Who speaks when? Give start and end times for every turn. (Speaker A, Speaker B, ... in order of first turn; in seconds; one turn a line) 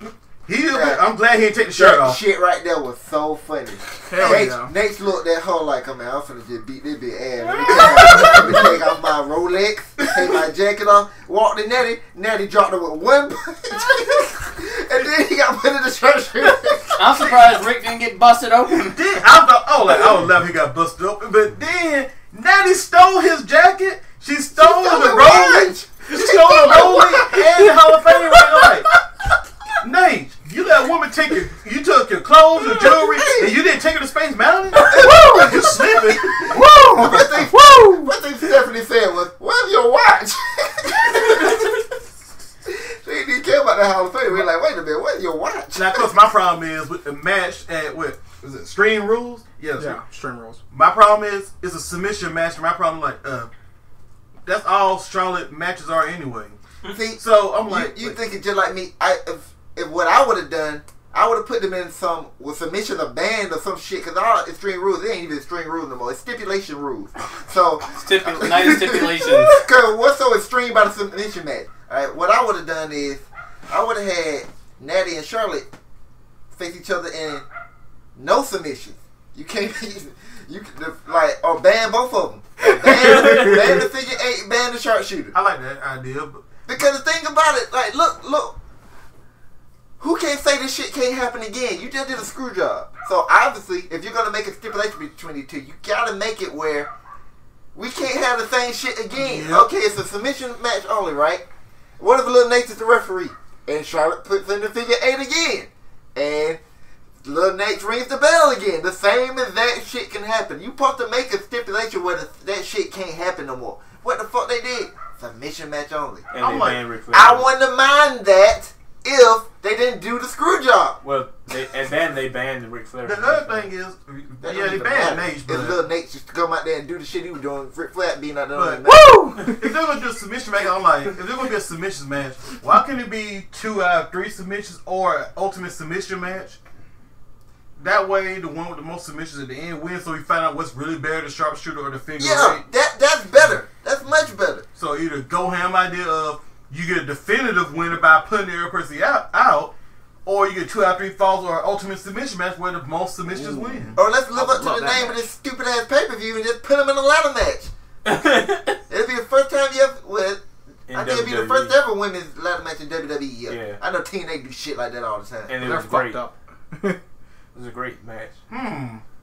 Speaker A: 0.5-2.2
Speaker B: 0.7-1.0
Speaker B: 1.7-17.4
Speaker C: 4.0-4.7
Speaker A: 4.2-4.5
Speaker A: 7.8-8.6
Speaker D: 17.0-19.0
Speaker A: 18.8-28.9
Speaker B: 24.5-27.3
Speaker A: 29.8-36.6
Speaker B: 32.7-33.5
Speaker B: 34.8-41.8
Speaker C: 35.0-35.5
Speaker C: 36.5-38.1
Speaker B: 42.6-46.1
Speaker A: 45.7-50.0
Speaker C: 49.8-50.6
Speaker A: 50.7-53.5
Speaker A: 54.4-56.6
Speaker B: 56.9-75.7
Speaker A: 57.2-58.2
Speaker D: 67.9-69.6
Speaker B: 76.5-77.5
Speaker B: 78.2-85.3
Speaker C: 82.8-83.6
Speaker A: 85.3-86.4
Speaker B: 86.7-88.5
Speaker B: 90.0-96.9
Speaker B: 97.7-101.4
Speaker A: 99.1-99.7
Speaker B: 102.0-106.6
Speaker B: 107.2-116.3
Speaker E: 116.3-117.5
Speaker A: 116.4-116.8
Speaker B: 117.1-121.0
Speaker E: 121.0-123.7
Speaker A: 123.0-125.8
Speaker B: 124.4-129.4
Speaker A: 128.5-128.8
Speaker C: 128.9-129.6
Speaker A: 129.4-136.6
Speaker A: 137.8-142.6
Speaker B: 142.2-144.6
Speaker A: 144.8-149.7
Speaker A: 150.2-154.0
Speaker C: 153.3-155.2
Speaker B: 153.9-157.7
Speaker E: 158.0-158.8
Speaker B: 158.9-165.5
Speaker E: 160.9-161.8
Speaker E: 163.5-163.8
Speaker E: 165.5-166.2
Speaker C: 165.6-167.0
Speaker E: 167.5-168.4
Speaker A: 168.5-169.0